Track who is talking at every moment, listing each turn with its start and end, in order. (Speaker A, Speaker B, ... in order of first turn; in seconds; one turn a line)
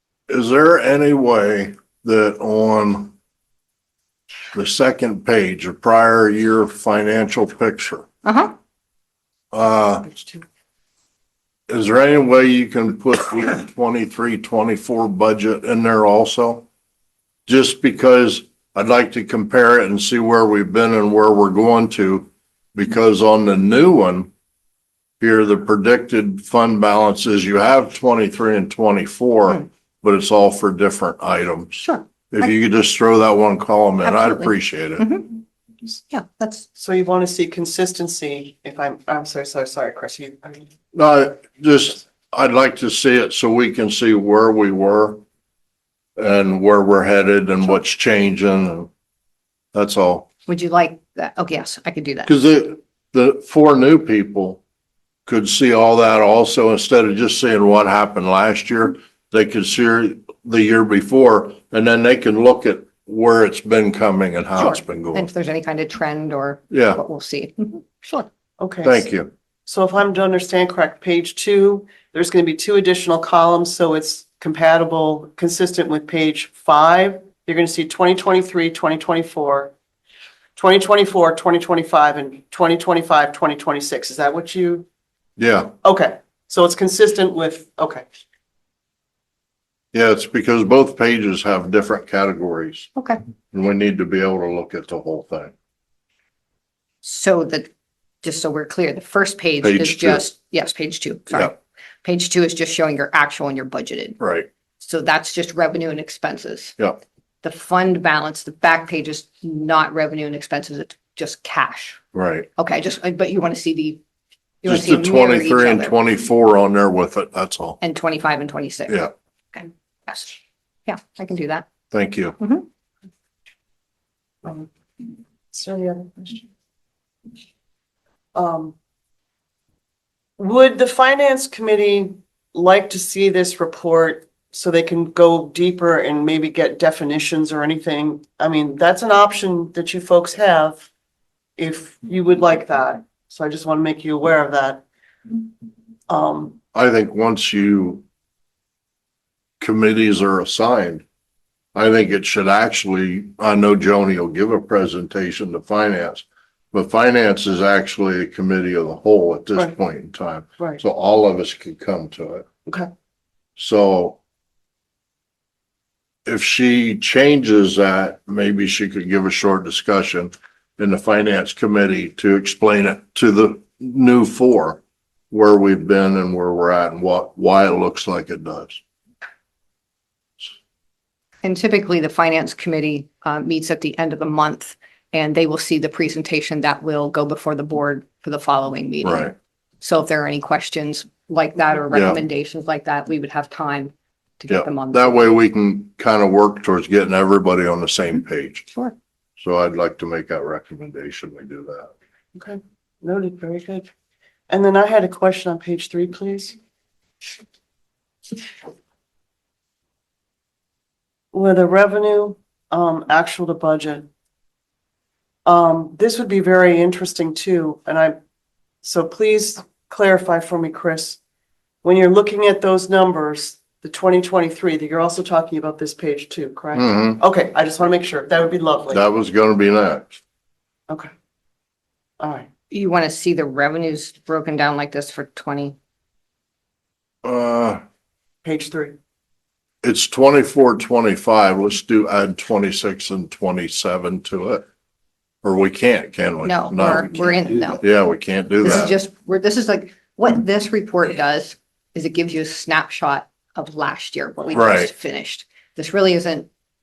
Speaker A: 0.3-3.1
Speaker A: 4.5-8.1
Speaker B: 8.2-8.6
Speaker A: 9.5-10.1
Speaker C: 10.1-10.4
Speaker A: 11.7-16.7
Speaker A: 17.5-24.3
Speaker A: 25.2-35.1
Speaker B: 31.8-32.5
Speaker B: 34.0-36.7
Speaker C: 36.8-40.7
Speaker A: 40.9-45.2
Speaker A: 46.2-48.9
Speaker A: 49.7-50.3
Speaker B: 50.5-52.3
Speaker A: 52.3-54.6
Speaker A: 55.3-65.3
Speaker B: 64.6-68.3
Speaker A: 66.7-67.0
Speaker C: 68.6-69.1
Speaker A: 68.8-69.3
Speaker C: 69.7-79.7
Speaker C: 80.6-84.9
Speaker A: 85.4-85.7
Speaker C: 85.8-88.0
Speaker A: 89.9-92.9
Speaker A: 93.5-95.5
Speaker B: 97.0-97.7
Speaker B: 98.2-104.2
Speaker A: 99.6-100.2
Speaker A: 104.2-104.5
Speaker B: 104.8-106.8
Speaker B: 107.4-112.0
Speaker A: 112.1-112.5
Speaker B: 112.6-114.0
Speaker B: 114.6-116.0
Speaker A: 114.7-117.8
Speaker B: 117.8-121.7
Speaker A: 121.9-122.4
Speaker B: 122.4-122.7
Speaker C: 124.4-124.7
Speaker C: 125.5-126.5
Speaker C: 128.3-128.8
Speaker C: 130.4-140.9
Speaker C: 141.6-144.8
Speaker C: 146.1-146.6
Speaker A: 146.7-148.0
Speaker A: 149.6-151.0
Speaker A: 151.7-162.4
Speaker A: 163.6-164.2
Speaker A: 166.3-178.8
Speaker B: 181.4-195.4
Speaker A: 189.0-189.3
Speaker A: 191.9-192.2
Speaker A: 194.5-198.7
Speaker A: 199.4-201.9
Speaker C: 202.3-203.9
Speaker C: 204.5-206.6
Speaker C: 211.3-214.1
Speaker C: 215.5-218.2
Speaker C: 218.8-221.2
Speaker C: 221.8-229.0
Speaker A: 226.8-227.2
Speaker A: 228.9-230.2
Speaker C: 232.2-232.5
Speaker B: 232.7-235.8
Speaker A: 237.2-237.8
Speaker C: 238.4-239.0
Speaker A: 239.8-244.7
Speaker A: 245.4-247.1
Speaker B: 246.4-247.8
Speaker A: 247.8-248.9
Speaker B: 248.6-256.5
Speaker A: 254.5-254.9